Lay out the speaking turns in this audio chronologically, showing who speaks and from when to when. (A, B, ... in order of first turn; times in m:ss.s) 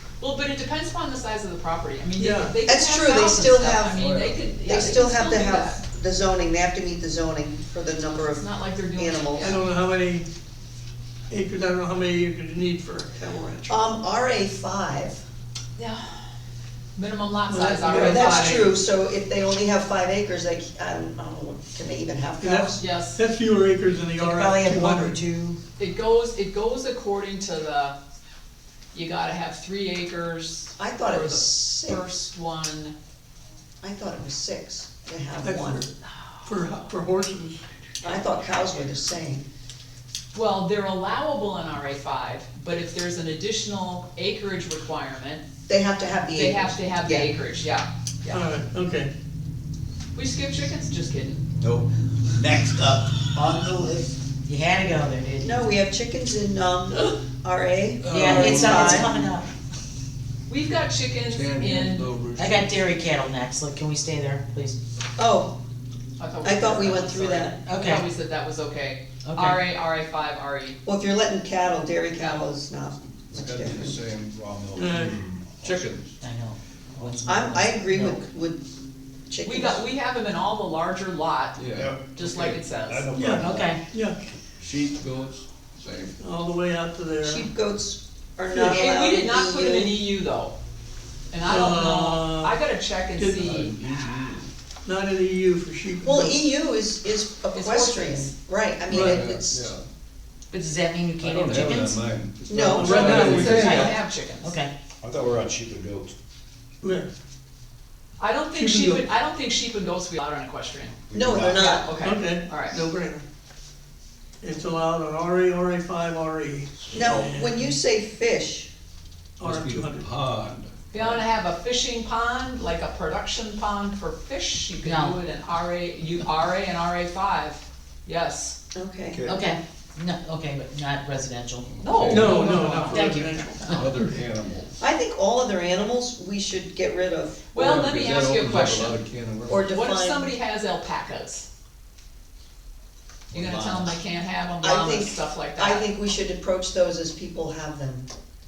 0:00.2-0:05.8 A
0:02.2-0:02.6 B
0:02.7-0:04.0 C
0:03.9-0:04.5 D
0:04.6-0:09.6 C
0:08.4-0:09.6 A
0:09.4-0:10.3 B
0:11.3-0:13.9 B
0:13.3-0:15.2 C
0:15.8-0:16.3 A
0:17.0-0:18.7 A
0:17.5-0:18.7 B
0:17.7-0:22.8 C
0:22.4-0:25.2 B
0:22.8-0:23.2 A
0:24.2-0:25.6 E
0:25.8-0:28.0 A
0:28.9-0:33.0 A
0:30.8-0:32.0 C
0:33.8-0:35.8 C
0:35.4-0:35.9 B
0:36.4-0:37.6 B
0:38.0-0:39.5 C
0:40.3-0:45.4 A
0:45.7-0:47.3 C
0:46.3-0:48.5 A
0:48.3-0:49.1 B
0:50.1-0:51.4 A
0:51.6-0:54.2 F
0:54.5-0:55.7 E
0:55.4-0:59.1 C
0:58.0-0:59.2 D
0:58.1-0:59.5 E
1:00.5-1:02.1 A
1:01.3-1:02.9 D
1:02.4-1:04.8 E
1:05.2-1:05.6 C
1:06.2-1:10.8 A
1:06.4-1:07.6 C
1:07.7-1:08.1 E
1:09.2-1:09.6 E
1:10.8-1:14.0 C
1:13.3-1:14.3 D
1:14.3-1:15.8 F
1:14.7-1:15.2 B
1:15.6-1:16.2 D
1:16.2-1:18.2 E
1:17.0-1:17.3 F
1:17.3-1:18.6 C
1:19.3-1:19.8 C
1:19.4-1:21.6 A
1:21.6-1:22.0 D
1:21.7-1:23.7 F
1:22.1-1:23.1 A
1:23.1-1:24.3 B
1:23.4-1:23.8 E
1:24.6-1:26.2 D
1:26.2-1:27.5 B
1:27.2-1:30.0 C
1:28.5-1:28.9 B
1:28.7-1:30.6 A
1:31.3-1:34.3 A
1:31.4-1:32.6 B
1:33.2-1:33.6 B
1:33.4-1:34.5 D
1:34.8-1:36.4 B
1:36.0-1:39.7 C
1:37.5-1:38.3 A
1:38.9-1:39.3 B
1:38.9-1:39.8 D
1:40.5-1:42.0 E
1:41.2-1:43.9 D
1:42.5-1:43.5 C
1:42.7-1:43.9 B
1:42.9-1:44.5 A
1:43.4-1:44.7 E
1:45.0-1:46.1 F
1:46.8-1:47.1 B
1:48.2-1:51.0 A
1:48.5-1:49.1 B
1:51.1-1:51.6 F
1:51.1-1:51.9 C
1:51.5-1:52.8 A
1:52.0-1:53.2 B
1:54.4-1:57.8 B
1:56.9-1:58.7 C
1:59.4-2:00.1 B
1:59.4-2:01.2 D
2:00.9-2:08.6 A
2:04.8-2:05.2 E
2:08.7-2:09.3 C
2:09.1-2:09.4 F
2:09.3-2:11.7 E
2:11.7-2:12.5 D
2:11.8-2:13.2 A
2:12.1-2:13.8 B
2:12.6-2:13.9 E
2:13.7-2:14.8 D
2:14.8-2:17.5 C
2:17.5-2:19.0 A
2:17.5-2:19.7 D
2:19.5-2:20.3 C
2:19.7-2:21.5 A
2:23.3-2:24.0 F
2:23.3-2:25.9 A
2:24.6-2:28.1 C